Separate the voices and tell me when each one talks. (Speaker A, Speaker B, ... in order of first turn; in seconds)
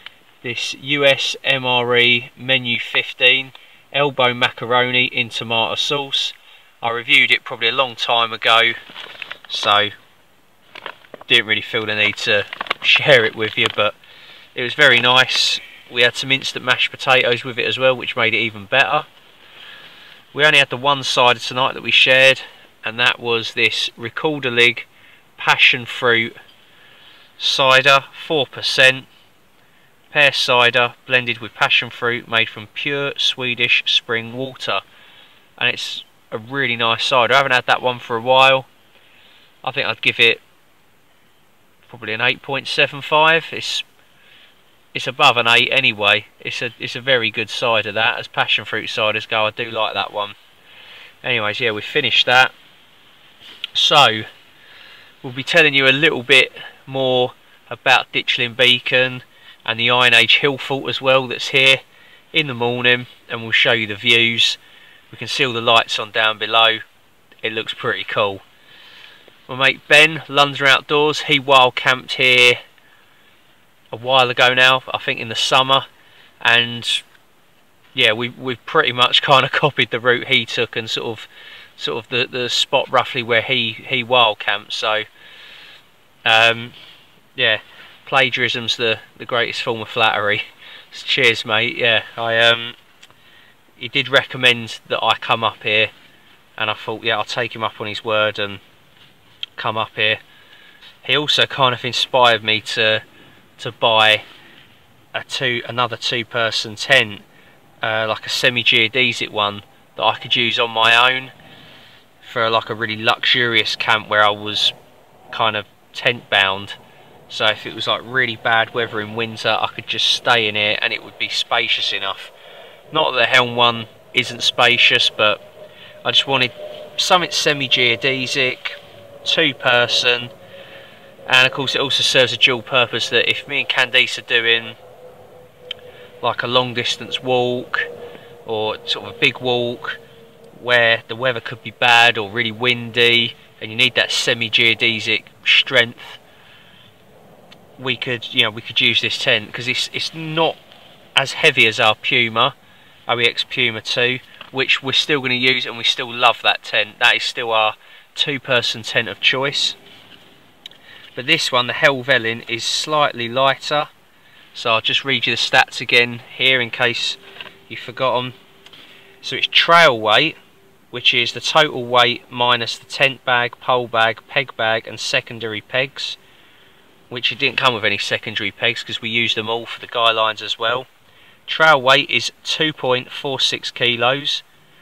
Speaker A: 0.4-8.8, 9.5-9.9, 11.3-14.0, 14.5-19.1, 20.3-26.3, 27.4-29.1, 30.1-34.8, 35.6-38.7, 39.6-40.4, 41.9-43.8, 44.9-50.4, 51.2-52.5, 53.7-54.3, 55.2-64.6, 65.1-66.8, 67.4-68.4, 69.5-72.6, 73.9-75.9, 76.4-77.0, 77.9-85.1, 86.2-86.7, 87.3-92.8, 93.8-95.9, 96.6-98.6, 99.6-100.2, 101.0-103.0, 103.6-104.2, 105.1-107.2, 107.8-111.3, 112.2-114.7, 115.3-116.8, 117.3-122.3, 122.9-125.4, 126.0-130.3, 131.3-134.8, 136.2-137.9, 138.4-140.0, 140.5-146.2, 147.8-150.6, 151.2-152.5, 153.1-159.8, 161.1-163.9, 164.5-168.3, 169.2-170.4, 170.9-176.2, 177.1-180.9, 181.5-184.4